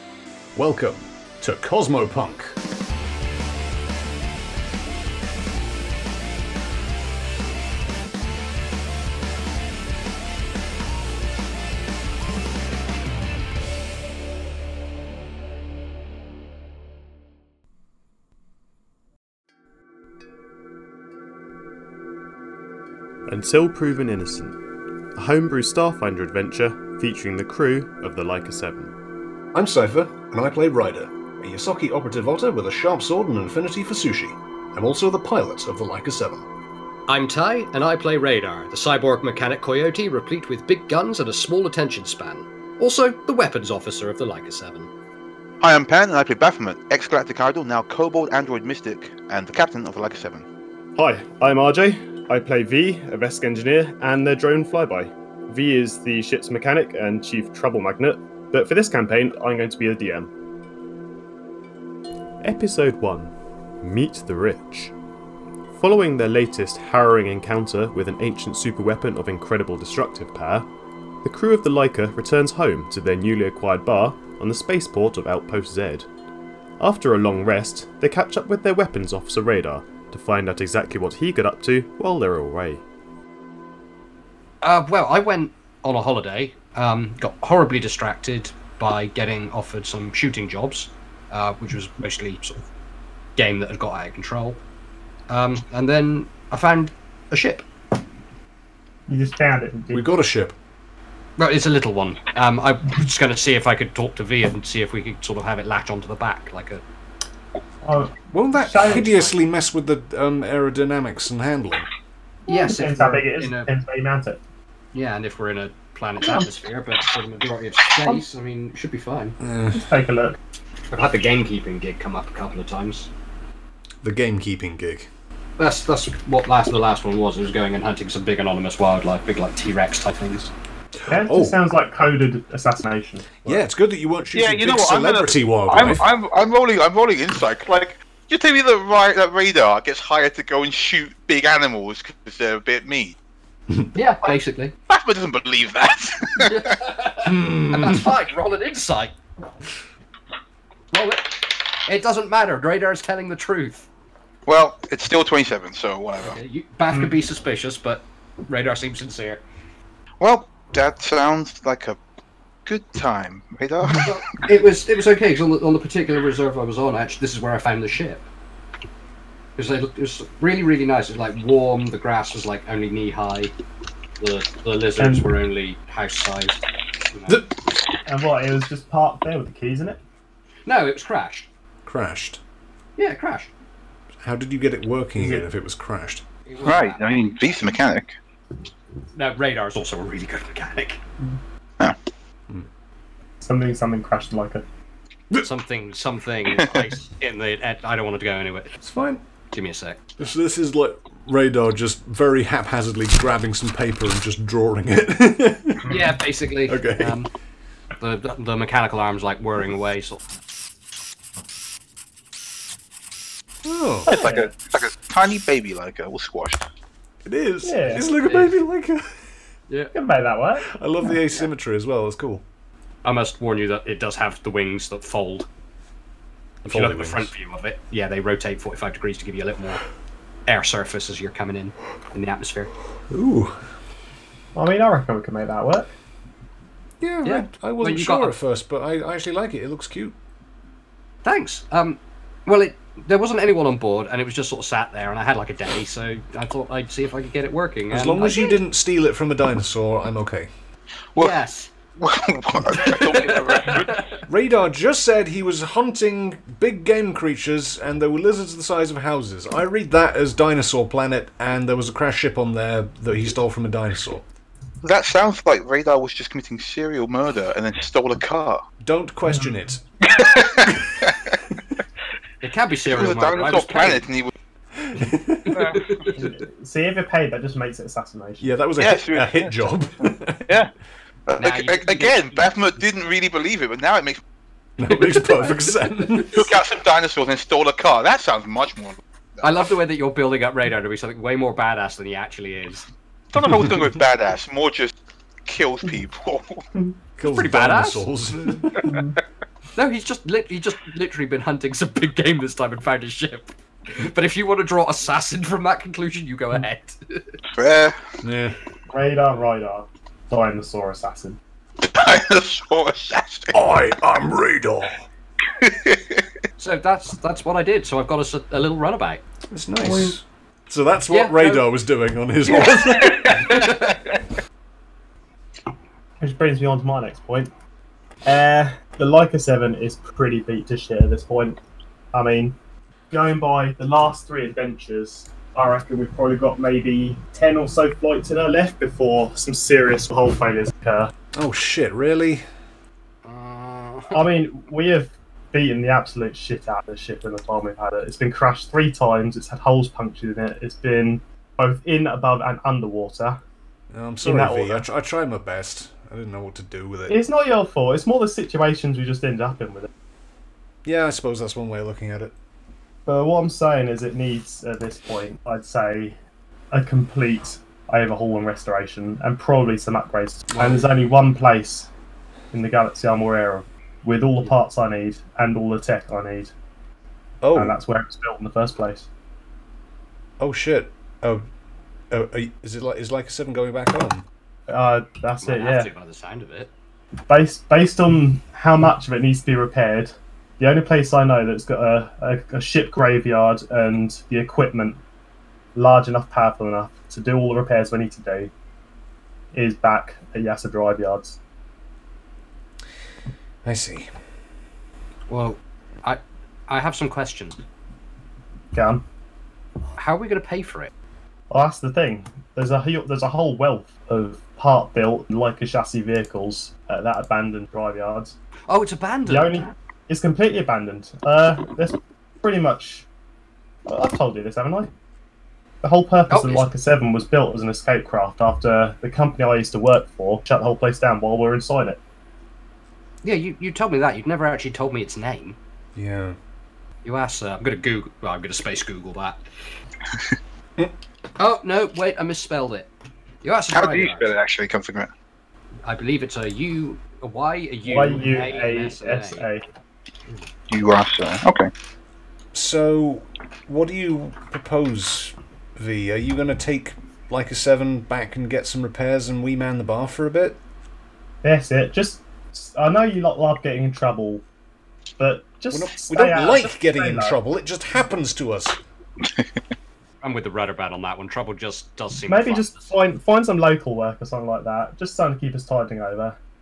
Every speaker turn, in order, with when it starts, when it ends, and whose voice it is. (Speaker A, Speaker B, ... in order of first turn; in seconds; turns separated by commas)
Speaker A: 0.5-2.6, Speaker B: 23.3-24.5, Speaker B: 25.2-28.9, Speaker A: 29.5-36.5, Speaker C: 37.1-44.9, Speaker D: 45.6-50.5, Speaker E: 51.0-59.0, Speaker B: 52.5-53.8, Speaker B: 54.5-55.0, Speaker B: 56.0-56.5, Speaker B: 58.0-60.3, Speaker E: 59.6-60.2, Speaker B: 62.4-63.3, Speaker B: 63.8-64.9, Speaker B: 65.8-70.7, Speaker B: 71.2-76.0, Speaker B: 76.8-82.8, Speaker C: 84.6-92.6, Speaker C: 93.3-94.6, Speaker C: 95.3-97.6, Speaker E: 99.1-100.1, Speaker A: 99.9-100.5, Speaker C: 101.4-106.8, Speaker E: 107.8-109.1, Speaker A: 108.3-111.9, Speaker C: 108.8-109.4, Speaker C: 112.5-113.7, Speaker E: 112.5-114.4, Speaker C: 114.9-119.3, Speaker A: 119.4-119.8, Speaker E: 119.7-120.4, Speaker C: 120.9-123.1, Speaker A: 124.0-125.1, Speaker C: 125.6-130.5, Speaker A: 131.0-131.6, Speaker E: 131.1-133.6, Speaker A: 133.4-136.1, Speaker D: 134.3-143.2, Speaker C: 143.9-144.7, Speaker D: 144.9-146.8, Speaker C: 146.4-149.1, Speaker A: 147.3-148.0, Speaker C: 150.9-153.9, Speaker D: 154.5-156.4, Speaker C: 156.2-159.4, Speaker D: 160.2-162.0, Speaker D: 162.7-164.2, Speaker C: 164.0-168.2, Speaker C: 169.6-173.5, Speaker C: 174.2-176.6, Speaker E: 175.0-175.3, Speaker C: 177.1-177.4, Speaker E: 178.1-180.0, Speaker C: 180.7-181.5, Speaker A: 181.8-182.4, Speaker C: 183.0-183.5, Speaker A: 184.2-186.2, Speaker E: 185.2-185.4, Speaker C: 186.4-187.2, Speaker D: 186.6-188.1, Speaker C: 189.1-191.0, Speaker E: 193.4-194.6, Speaker C: 195.4-198.8, Speaker A: 198.8-199.2, Speaker C: 199.5-200.1, Speaker A: 200.2-206.1, Speaker C: 205.8-207.3, Speaker A: 206.7-207.2, Speaker C: 208.0-210.2, Speaker A: 213.6-214.1, Speaker E: 214.1-214.5, Speaker D: 214.1-216.6, Speaker A: 217.2-219.2, Speaker E: 217.6-218.1, Speaker C: 218.0-218.5, Speaker E: 219.9-221.2, Speaker A: 220.6-222.4, Speaker C: 223.0-225.5, Speaker A: 226.6-227.3, Speaker C: 226.6-229.8, Speaker C: 230.5-232.7, Speaker A: 233.1-233.6, Speaker E: 234.5-235.9, Speaker A: 237.0-240.1, Speaker C: 237.2-238.3, Speaker C: 241.2-248.6, Speaker A: 247.9-250.5, Speaker D: 251.2-251.4, Speaker C: 251.2-251.7, Speaker D: 252.0-254.1, Speaker C: 252.7-254.2, Speaker A: 254.2-264.2, Speaker D: 264.8-268.6, Speaker A: 268.8-269.8, Speaker D: 270.0-271.4, Speaker C: 272.4-274.1, Speaker D: 272.9-274.3, Speaker A: 274.8-275.6, Speaker C: 275.5-276.1, Speaker D: 275.5-276.1, Speaker E: 276.1-278.5, Speaker A: 278.4-280.5, Speaker D: 278.8-279.8, Speaker D: 280.5-280.7, Speaker D: 281.3-284.2, Speaker C: 281.4-282.5, Speaker A: 284.8-286.5, Speaker C: 285.0-286.2, Speaker D: 286.3-289.6, Speaker C: 289.4-292.9, Speaker D: 293.3-294.9, Speaker D: 295.5-296.6, Speaker A: 297.2-298.7, Speaker C: 297.3-298.5, Speaker E: 298.8-299.1, Speaker C: 299.8-307.4, Speaker D: 307.5-308.0, Speaker A: 308.2-308.6, Speaker E: 308.9-311.4, Speaker D: 311.8-313.6, Speaker A: 313.5-315.1, Speaker D: 315.6-316.2, Speaker C: 316.6-319.2, Speaker A: 319.5-323.6, Speaker E: 319.8-320.1, Speaker C: 321.1-321.7, Speaker C: 322.4-324.0, Speaker E: 326.2-327.5, Speaker E: 328.2-331.6, Speaker E: 332.1-332.6, Speaker E: 333.1-341.1, Speaker A: 341.3-342.4, Speaker C: 343.2-344.3, Speaker E: 344.1-353.4, Speaker A: 353.9-357.2, Speaker E: 354.2-354.9, Speaker E: 357.1-359.9, Speaker A: 360.9-362.3, Speaker E: 363.1-366.2, Speaker E: 366.7-371.9, Speaker E: 372.5-376.5, Speaker A: 377.4-377.8, Speaker E: 377.5-379.1, Speaker A: 380.4-381.4, Speaker A: 382.1-384.2, Speaker E: 384.7-385.9, Speaker C: 385.4-386.7, Speaker E: 387.3-395.0, Speaker E: 395.8-398.5, Speaker E: 399.5-401.4, Speaker A: 403.6-404.1, Speaker C: 405.3-407.6, Speaker E: 408.7-409.0, Speaker C: 410.0-410.9, Speaker E: 411.5-418.3, Speaker C: 418.7-419.7, Speaker E: 419.2-423.1, Speaker E: 423.9-424.9, Speaker E: 425.8-432.0, Speaker C: 426.3-426.7, Speaker C: 433.2-435.6, Speaker A: 435.9-436.4, Speaker C: 437.0-439.4, Speaker C: 441.4-442.9, Speaker C: 443.4-444.3, Speaker D: 443.7-445.1, Speaker C: 445.9-449.5, Speaker E: 447.8-449.6, Speaker D: 450.7-451.7, Speaker A: 452.5-460.6, Speaker E: 461.4-464.4, Speaker E: 465.2-467.4, Speaker A: 465.7-468.8, Speaker C: 470.2-472.9, Speaker E: 472.3-476.4